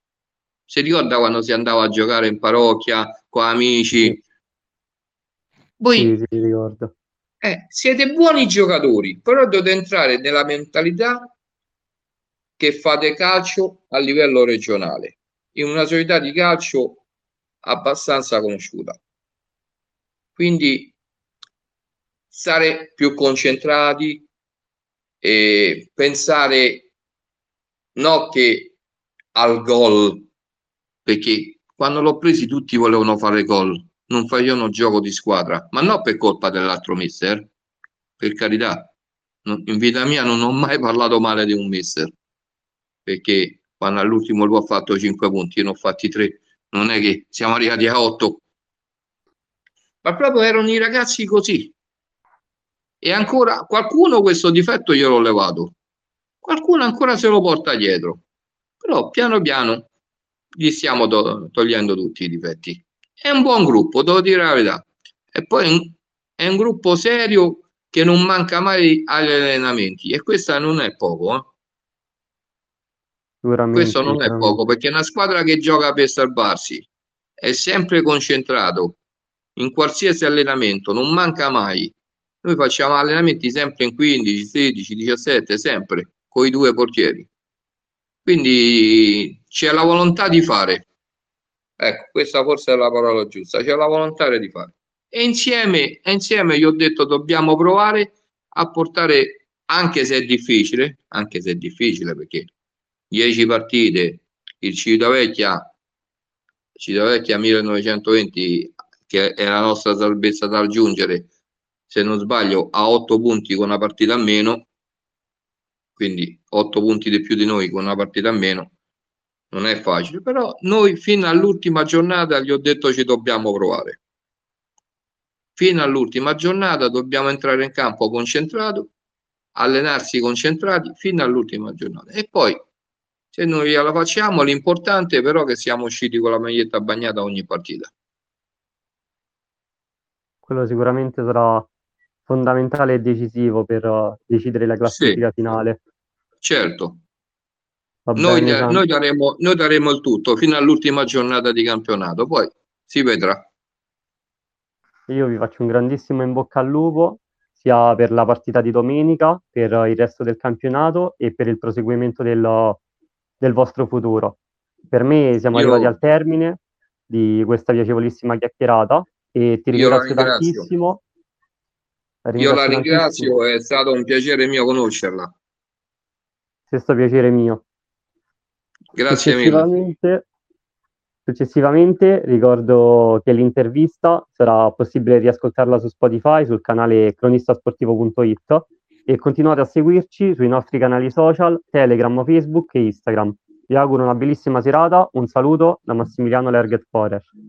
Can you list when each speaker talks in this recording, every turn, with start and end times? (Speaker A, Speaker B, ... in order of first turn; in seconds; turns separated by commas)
Speaker A: 0.7-4.2, Speaker A: 5.8-6.1, Speaker B: 5.9-6.9, Speaker A: 7.4-11.3, Speaker A: 12.6-17.0, Speaker A: 17.6-19.0, Speaker A: 20.4-20.9, Speaker A: 22.3-24.3, Speaker A: 25.2-26.9, Speaker A: 27.9-28.7, Speaker A: 29.3-30.3, Speaker A: 31.0-37.5, Speaker A: 38.2-38.9, Speaker A: 39.4-42.1, Speaker A: 43.0-48.4, Speaker A: 50.0-51.7, Speaker A: 53.0-55.8, Speaker A: 56.4-58.2, Speaker A: 58.8-59.9, Speaker A: 60.5-71.5, Speaker B: 73.4-74.6, Speaker A: 73.7-76.9, Speaker A: 77.4-79.0, Speaker A: 79.5-87.3, Speaker A: 88.2-90.9, Speaker A: 91.8-102.5, Speaker A: 103.1-105.7, Speaker A: 106.8-111.3, Speaker A: 111.9-114.7, Speaker A: 116.0-118.7, Speaker A: 119.5-124.0, Speaker A: 125.5-128.9, Speaker A: 129.5-132.6, Speaker A: 133.3-137.9, Speaker B: 140.4-141.7, Speaker B: 142.3-145.8, Speaker A: 144.8-145.2, Speaker A: 146.4-147.0, Speaker B: 148.1-148.8, Speaker A: 148.2-153.4, Speaker B: 155.1-162.8, Speaker B: 163.4-164.4, Speaker B: 164.9-171.0, Speaker A: 165.5-165.9, Speaker A: 169.7-170.7, Speaker B: 172.2-173.4, Speaker A: 172.4-175.3, Speaker B: 176.7-177.6, Speaker A: 178.9-179.7, Speaker B: 179.1-180.2, Speaker B: 181.3-197.3